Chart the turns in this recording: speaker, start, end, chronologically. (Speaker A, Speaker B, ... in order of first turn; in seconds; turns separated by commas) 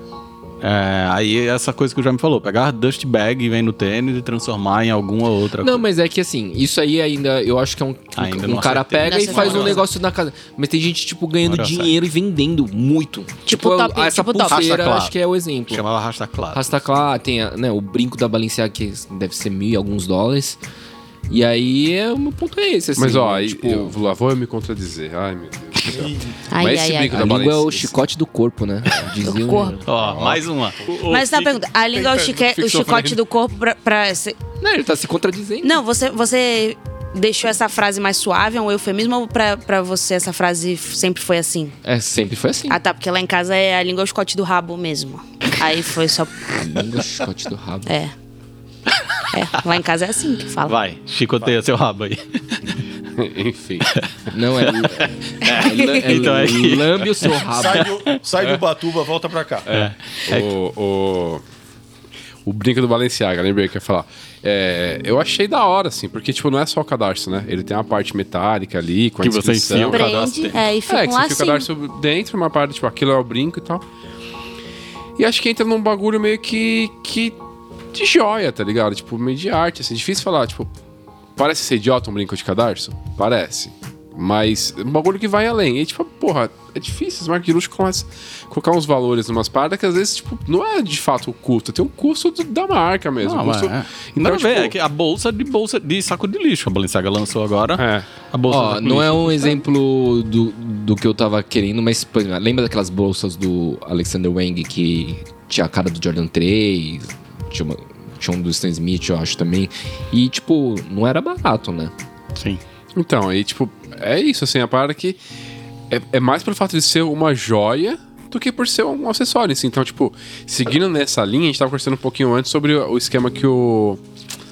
Speaker A: 0.6-5.8, Speaker B: 5.6-15.8, Speaker A: 8.2-9.8, Speaker C: 9.0-9.8, Speaker A: 11.4-11.9, Speaker C: 13.5-14.7, Speaker A: 14.5-15.1, Speaker A: 15.7-16.8, Speaker B: 16.5-20.6, Speaker B: 21.3-24.0, Speaker D: 23.0-28.0, Speaker E: 25.9-26.4, Speaker C: 26.5-27.2, Speaker B: 27.1-29.8, Speaker C: 29.2-29.8, Speaker A: 29.9-31.6, Speaker D: 29.9-30.4, Speaker C: 31.1-34.4, Speaker D: 32.4-33.1, Speaker B: 34.6-35.8, Speaker C: 35.6-41.8, Speaker B: 41.8-42.8, Speaker C: 42.7-46.9, Speaker B: 46.5-47.9, Speaker C: 47.9-48.1, Speaker C: 49.3-50.8, Speaker A: 50.6-52.7, Speaker D: 53.1-53.9, Speaker A: 53.9-58.2, Speaker B: 54.3-57.9, Speaker C: 55.6-56.0, Speaker E: 57.5-59.7, Speaker D: 59.7-61.4, Speaker A: 59.7-60.5, Speaker D: 62.5-70.3, Speaker A: 69.2-70.7, Speaker C: 69.9-71.7, Speaker D: 70.9-73.8, Speaker D: 75.2-77.4, Speaker D: 77.9-80.7, Speaker D: 81.4-94.7, Speaker A: 93.2-99.6, Speaker D: 97.8-98.1, Speaker B: 98.5-111.9, Speaker A: 112.3-112.6, Speaker D: 113.0-115.2, Speaker D: 115.9-124.0